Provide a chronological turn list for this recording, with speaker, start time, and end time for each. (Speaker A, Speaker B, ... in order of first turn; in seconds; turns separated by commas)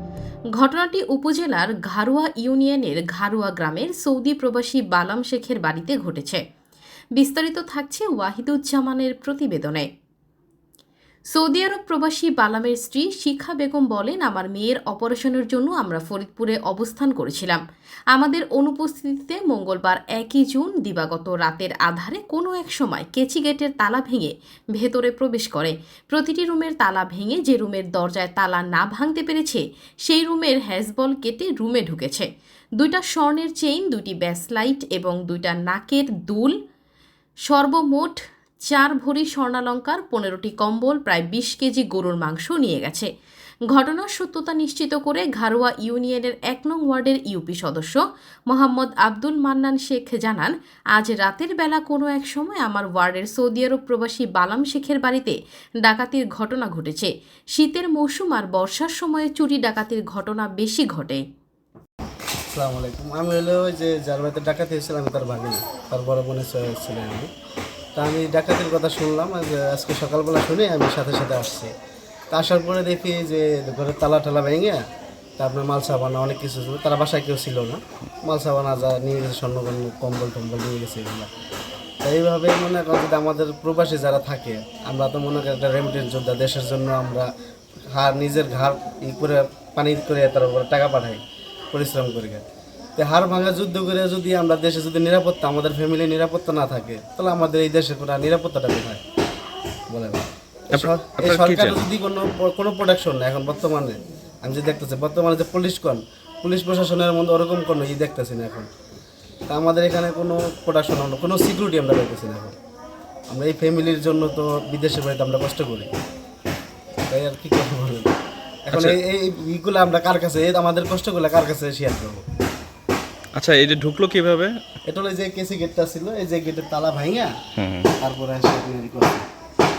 Speaker A: 0.6-6.4, Speaker A: 7.2-9.9, Speaker A: 11.3-17.6, Speaker A: 18.1-32.3, Speaker A: 32.8-36.6, Speaker A: 37.5-43.1, Speaker A: 43.7-61.2, Speaker B: 62.5-67.3, Speaker B: 68.0-71.7, Speaker B: 72.3-74.8, Speaker B: 75.4-81.3, Speaker B: 82.0-87.3, Speaker B: 87.9-99.0, Speaker B: 99.9-108.7, Speaker C: 100.7-101.8, Speaker B: 109.5-112.5, Speaker B: 113.3-115.9, Speaker B: 117.1-118.1, Speaker B: 118.7-122.2, Speaker C: 118.7-119.0, Speaker C: 123.3-124.5, Speaker B: 124.9-127.3, Speaker C: 127.6-127.9, Speaker B: 128.0-129.2